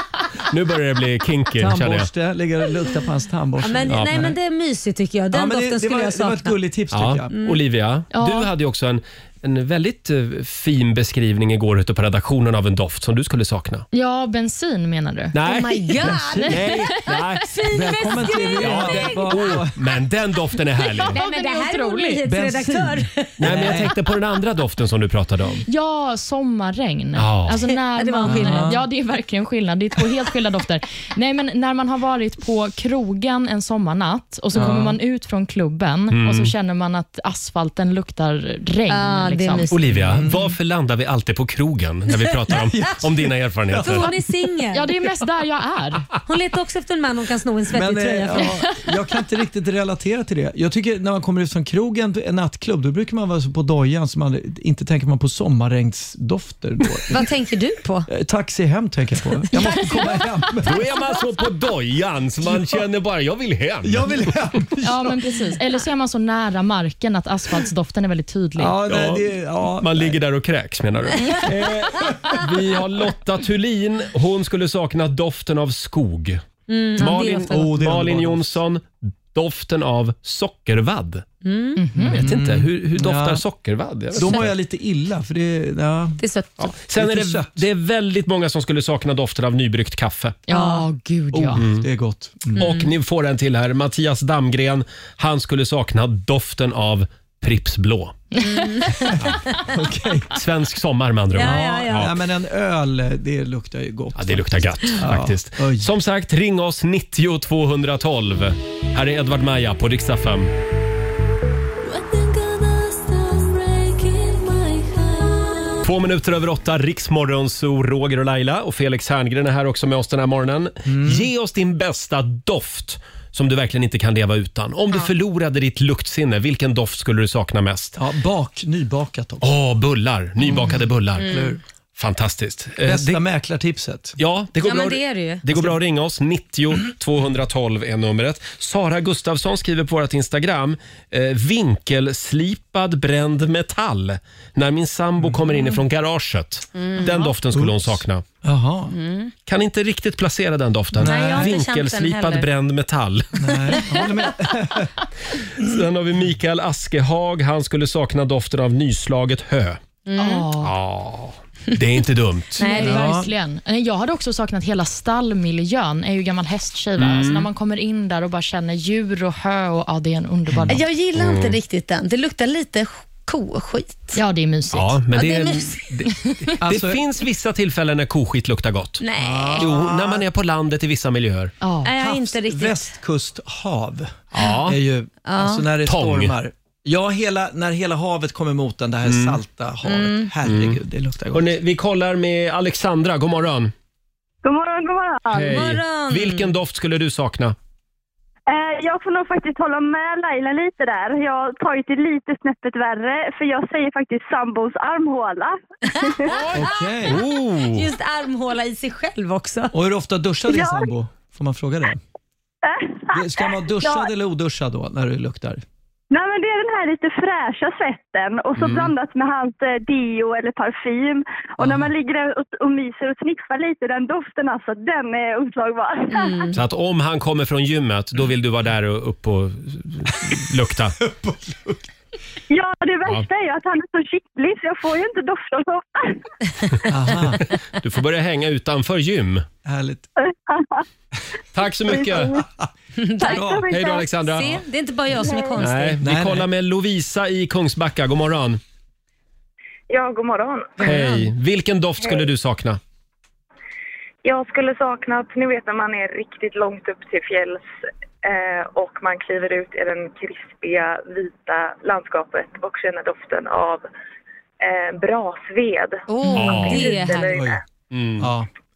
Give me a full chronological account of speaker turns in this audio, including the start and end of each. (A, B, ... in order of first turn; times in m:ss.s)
0:00.4-0:02.1 A
0:01.6-0:04.3 B
0:03.6-0:06.6 C
0:03.9-0:04.3 A
0:05.3-0:07.3 B
0:06.9-0:13.8 A
0:07.3-0:07.6 C
0:08.1-0:08.5 D
0:13.9-0:15.4 D
0:15.3-0:17.6 A
0:15.4-0:16.9 C
0:16.0-0:16.6 B
0:17.5-0:19.6 C
0:17.7-0:19.7 B
0:18.6-0:21.2 A
0:20.8-0:22.2 D
0:21.0-0:23.9 C
0:22.2-0:23.9 B
0:23.4-0:25.6 A
0:25.7-0:39.7 D
0:27.1-0:27.7 A
0:27.9-0:28.8 C
0:28.2-0:28.8 B
0:34.5-0:35.0 B
0:36.1-0:36.5 A
0:38.9-0:39.9 C
0:39.7-0:44.1 A
0:40.0-0:40.5 B
0:42.5-0:44.2 B
0:43.8-0:44.9 C
0:44.7-0:46.0 D
0:46.2-0:48.6 C
0:47.7-0:57.3 B
0:57.1-0:58.1 C
0:58.1-1:00.8 B
0:59.6-1:00.1 C
1:00.6-1:04.3 A
1:03.8-1:05.2 B
1:04.8-1:08.7 D
1:08.6-1:10.2 B
1:08.9-1:16.4 A
1:11.9-1:12.4 B
1:16.7-1:17.7 C
1:17.0-1:21.2 A
1:17.1-1:18.5 B
1:21.4-1:21.8 C
1:21.8-1:22.2 D
1:22.0-1:23.4 B
1:22.1-1:24.5 A
1:24.1-1:26.2 B
1:24.2-1:24.5 C
1:26.2-1:26.7 C
1:26.6-1:30.4 A
1:26.9-1:27.6 B
1:30.5-1:31.6 D
1:30.5-1:30.8 C
1:31.3-1:32.6 B
1:31.5-1:31.9 A
1:32.6-1:32.9 C
1:32.6-1:38.2 A
1:38.3-1:39.1 D
1:38.4-1:39.6 C
1:39.6-1:40.3 B
1:40.3-1:42.1 A
1:41.3-1:42.1 C
1:41.4-1:45.9 B
1:44.1-1:50.5 A
1:51.9-1:55.7 C
1:55.8-2:08.0 A
2:00.9-2:01.3 B
2:08.0-2:09.5 B
2:09.4-2:11.4 A
2:10.4-2:11.6 B
2:11.2-2:11.6 C
2:12.0-2:13.2 A
2:12.8-2:14.2 B
2:14.2-2:28.2 A
2:14.6-2:15.4 C
2:26.8-2:27.1 C
2:27.5-2:28.9 B
2:28.9-2:29.3 C
2:29.4-2:33.8 A
2:31.0-2:31.6 B
2:31.0-2:32.5 C
2:33.4-2:34.9 B
2:33.8-2:34.2 C
2:35.6-2:39.8 A
2:40.0-2:40.5 C
2:40.2-2:40.7 D
2:40.6-2:42.8 A
2:42.6-2:43.1 C
2:42.7-2:50.8 D
2:42.8-2:43.3 B
2:47.0-2:47.5 A
2:50.7-2:54.2 C
2:51.1-2:51.6 A
2:54.1-2:54.9 D
2:54.7-2:59.0 A
2:55.1-2:56.0 C
2:56.3-2:56.5 D
2:56.6-2:57.0 B
2:59.0-2:59.7 C
2:59.2-3:00.2 B
2:59.6-3:01.5 A
3:01.6-3:01.9 D
3:01.8-3:02.9 C
3:02.0-3:04.1 B
3:04.3-3:04.8 A
3:04.6-3:11.5 B
3:05.2-3:05.7 C
3:05.8-3:06.3 A
3:09.0-3:09.4 A
3:09.8-3:10.3 C
3:10.4-3:10.8 A
3:11.3-3:13.7 A
3:14.4-3:15.6 E
3:15.3-3:17.6 A
3:15.5-3:16.5 C
3:18.5-3:26.4 E
3:26.3-3:29.7 C
3:26.5-3:27.2 B
3:26.6-3:27.9 A
3:29.7-3:32.0 B
3:30.5-3:30.9 E
3:32.6-3:34.1 E
3:33.1-3:35.6 B
3:36.1-3:46.5 E
3:38.6-3:38.9 A
3:41.6-3:41.9 B
3:46.1-3:46.5 C
3:46.5-3:51.0 A
3:51.0-3:51.8 B
3:52.5-3:56.8 E
3:56.9-3:57.4 B
3:57.7-3:59.4 A
3:59.6-4:00.1 B
4:00.2-4:00.8 E
4:01.5-4:02.4 A
4:01.8-4:02.4 E
4:02.0-4:02.7 B
4:03.0-4:06.0 C
4:03.2-4:04.1 E
4:03.2-4:03.7 B
4:03.6-4:04.6 A
4:05.2-4:05.6 E
4:05.6-4:08.6 A
4:06.0-4:06.5 B
4:09.9-4:10.8 F
4:10.8-4:11.3 C
4:10.8-4:12.8 A
4:14.2-4:17.6 F
4:18.2-4:23.9 F
4:24.6-4:27.6 F
4:26.1-4:27.3 C
4:26.3-4:27.0 A
4:26.8-4:27.6 B
4:27.9-4:28.3 A
4:28.2-4:28.5 B